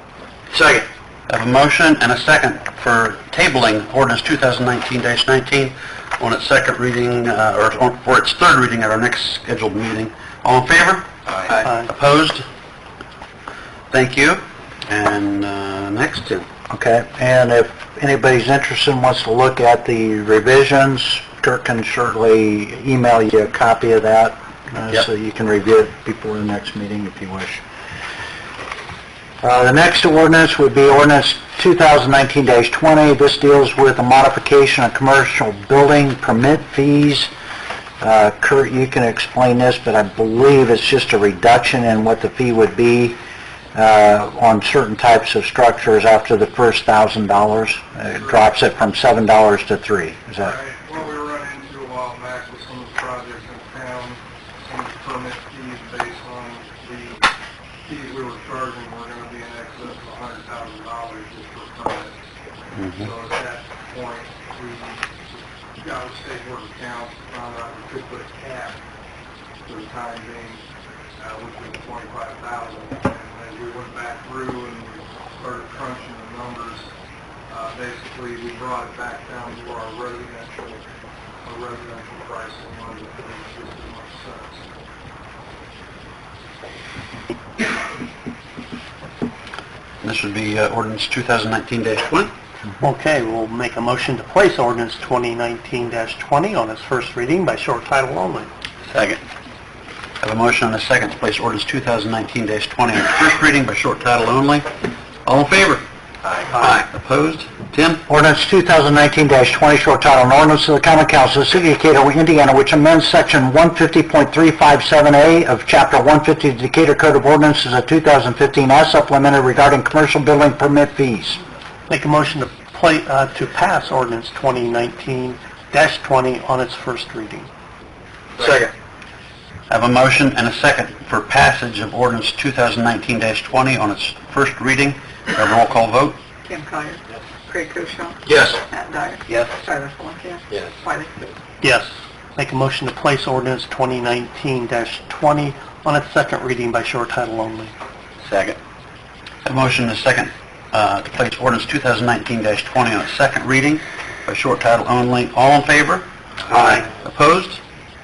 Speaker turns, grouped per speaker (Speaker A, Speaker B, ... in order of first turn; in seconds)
Speaker A: 0.5-12.5, 13.9-16.4, 62.8-63.1, 90.0-92.3, 98.9-99.2, 100.2-104.7, 105.2-108.0, 128.4-128.7, 129.7-136.2, 138.3-138.6, 148.2-148.6, 149.4-157.6
Speaker B: 11.6-11.9, 92.8-98.5, 121.9-127.5, 141.6-147.7
Speaker C: 16.7-27.6, 29.4-37.3, 38.0-43.2, 43.7-50.5, 108.1-121.4
Speaker D: 50.4-57.3, 57.9-62.1, 62.9-68.8, 69.7-70.6, 71.2-76.9, 77.5-80.8, 81.4-84.7
Speaker E: 136.4-141.3